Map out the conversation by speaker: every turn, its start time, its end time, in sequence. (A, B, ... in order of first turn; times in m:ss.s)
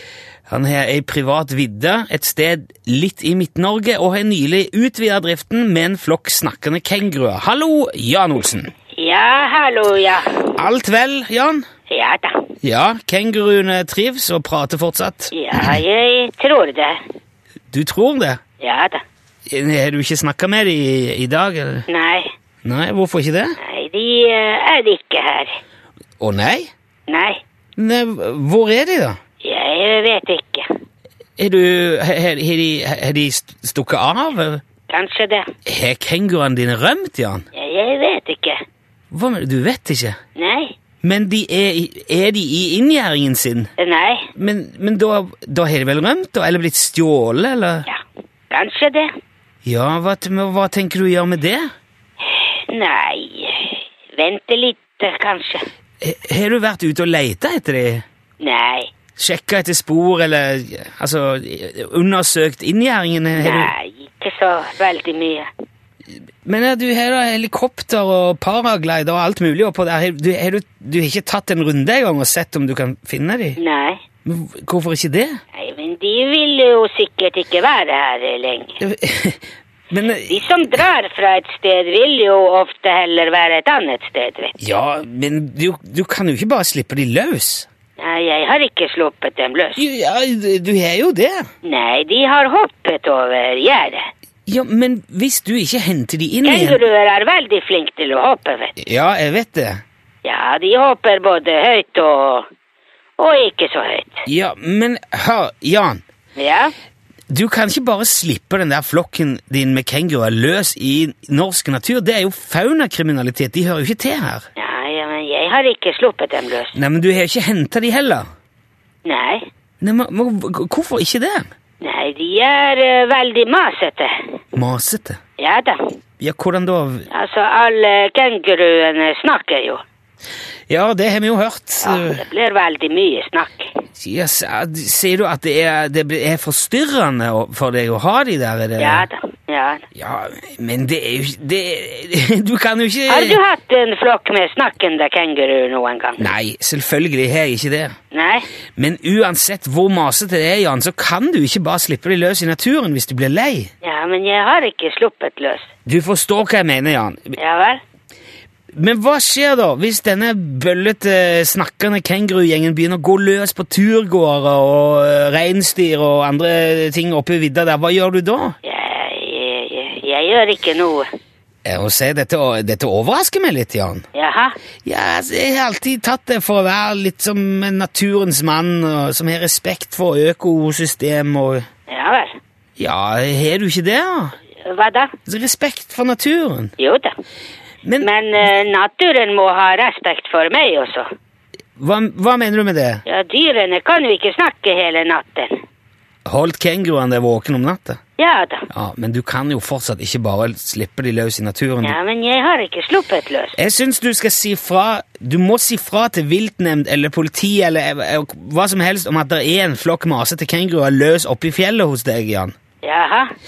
0:00.5-0:08.7 A
0:09.0-0:10.5 B
0:10.5-0:11.6 A
0:11.9-0:12.5 B
0:12.6-0:15.6 A
0:15.3-0:17.0 B
0:17.7-0:18.4 A
0:18.6-0:19.0 B
0:19.5-0:21.9 A
0:21.9-0:22.3 B
0:22.6-0:23.6 A
0:23.6-0:25.6 B
0:26.2-0:26.7 A
0:27.1-0:27.4 B
0:27.8-0:29.2 A
0:29.4-0:30.7 B
0:31.4-0:34.6 A
0:34.9-0:35.5 B
0:35.7-0:37.5 A
0:37.5-0:38.6 B
0:39.1-0:40.2 A
0:40.4-0:40.7 B
0:41.0-0:43.7 A
0:43.8-0:44.3 B
0:44.4-0:47.9 A
0:47.9-0:49.1 B
0:49.6-0:51.7 A
0:52.3-0:55.7 B
0:56.0-0:58.0 A
0:58.4-0:58.9 B
0:59.2-1:03.7 A
1:03.4-1:05.5 B
1:06.4-1:13.6 A
1:13.6-1:14.0 B
1:14.2-1:15.4 A
1:15.6-1:18.8 B
1:18.8-1:20.3 A
1:20.3-1:24.6 B
1:24.6-1:27.7 A
1:28.0-1:29.8 B
1:29.8-1:31.5 A
1:31.6-1:34.1 B
1:34.5-1:36.8 A
1:36.4-1:38.7 B
1:38.8-1:39.8 A
1:40.2-1:42.5 B
1:43.2-1:44.2 B
1:44.3-1:46.0 A
1:46.4-1:46.7 B
1:47.3-1:54.4 A
1:54.6-1:56.8 B
1:56.7-1:58.3 A
1:59.0-1:59.5 B
1:59.8-2:01.5 A
2:01.8-2:04.2 B
2:04.6-2:05.2 A
2:05.4-2:05.8 B
2:06.2-2:07.1 A
2:07.1-2:09.8 B
2:10.7-2:12.2 A
2:11.8-2:13.8 B
2:14.0-2:19.1 A
2:18.8-2:19.9 B
2:19.9-2:23.4 A
2:23.1-2:26.2 B
2:26.2-2:28.0 A
2:28.1-2:28.5 B
2:28.8-2:33.7 A
2:33.8-2:35.7 B
2:35.9-2:37.4 A
2:37.4-2:37.8 B
2:38.7-2:48.6 A
2:48.6-2:51.1 B
2:51.6-2:54.0 A
2:54.1-2:54.6 B
2:54.8-3:01.6 A
3:01.9-3:02.4 B
3:02.8-3:04.4 A
3:04.6-3:05.1 B
3:05.3-3:06.7 A
3:06.8-3:07.1 B
3:07.8-3:08.1 A
3:08.0-3:11.1 B
3:11.8-3:13.0 A
3:13.1-3:15.6 B
3:16.2-3:18.0 A
3:18.2-3:18.7 B
3:18.7-3:22.0 A
3:21.8-3:23.6 B
3:23.6-3:32.6 A
3:32.8-3:33.3 B